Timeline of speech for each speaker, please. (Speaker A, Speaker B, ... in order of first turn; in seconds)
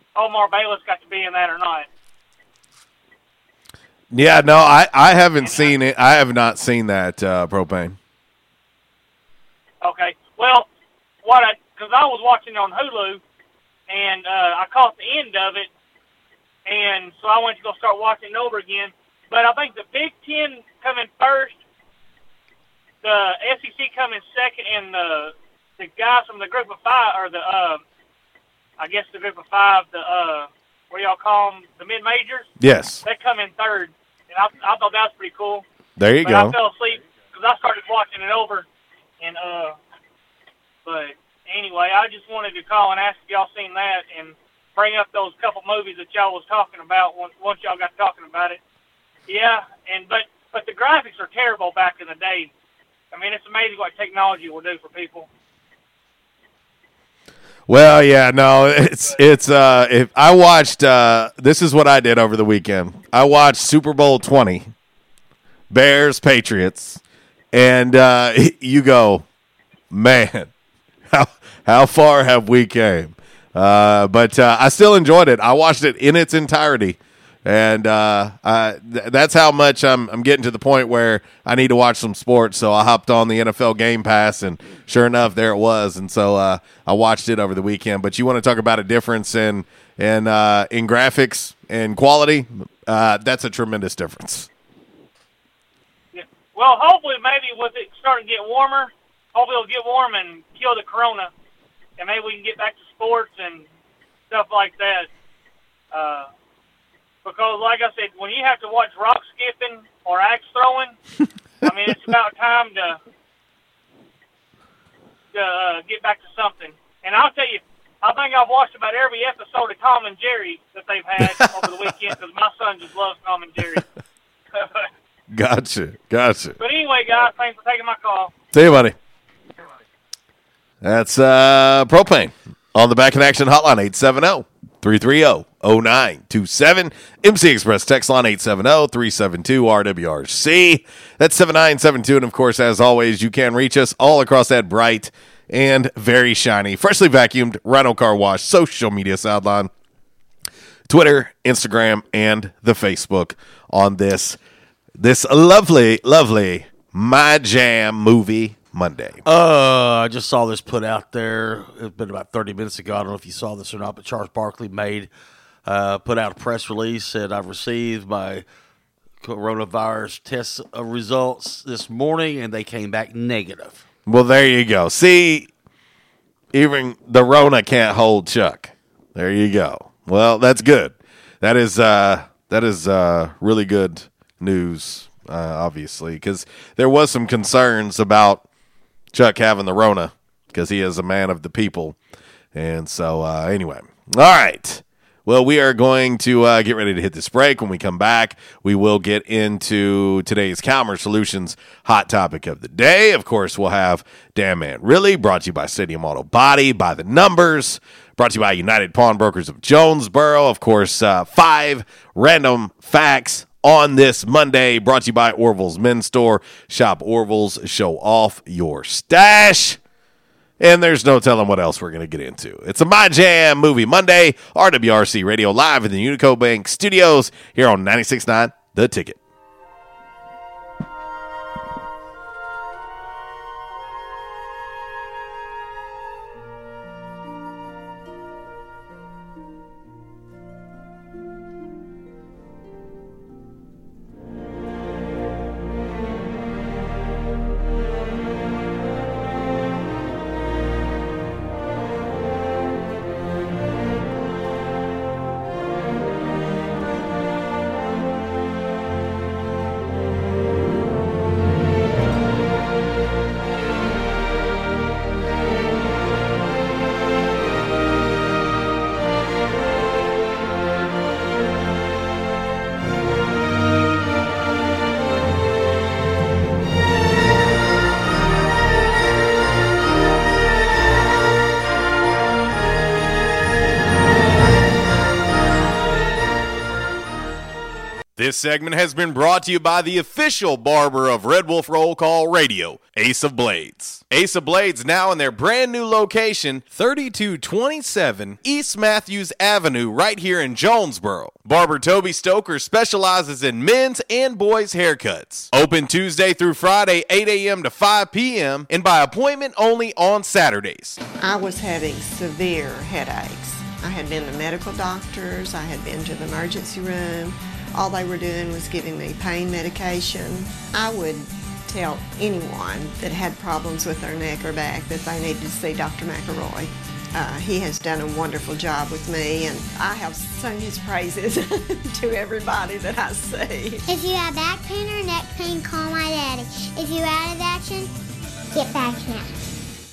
Speaker A: 0.1-1.9, 5.4-5.8, 9.8-10.7, 11.2-13.2, 13.9-15.7, 16.6-21.6, 23.0-27.8, 28.8-32.5, 33.0-35.6, 36.2-38.6, 39.2-39.8, 40.8-48.6, 49.3-52.5, 53.1-55.3, 96.1-101.3, 102.0-103.7, 104.3-105.1, 105.9-106.3, 107.2-111.0, 111.6-113.0, 115.3-123.8, 124.5-124.9, 126.6-128.3
Speaker B: 4.1-8.0, 32.6-33.0, 36.0-36.5, 57.7-64.7, 65.7-67.0, 67.5-69.2, 69.9-70.5, 71.1-94.5, 125.3-126.6, 128.5-128.9, 130.8-149.7, 150.9-154.4, 155.0-159.2, 174.1-175.5, 176.5-188.4, 189.1-192.0, 192.5-219.8, 220.6-229.2, 288.2-311.0
Speaker C: 159.2-165.1, 165.7-168.4, 169.2-173.8
Speaker D: 311.2-333.8
Speaker E: 333.9-337.9, 338.5-339.3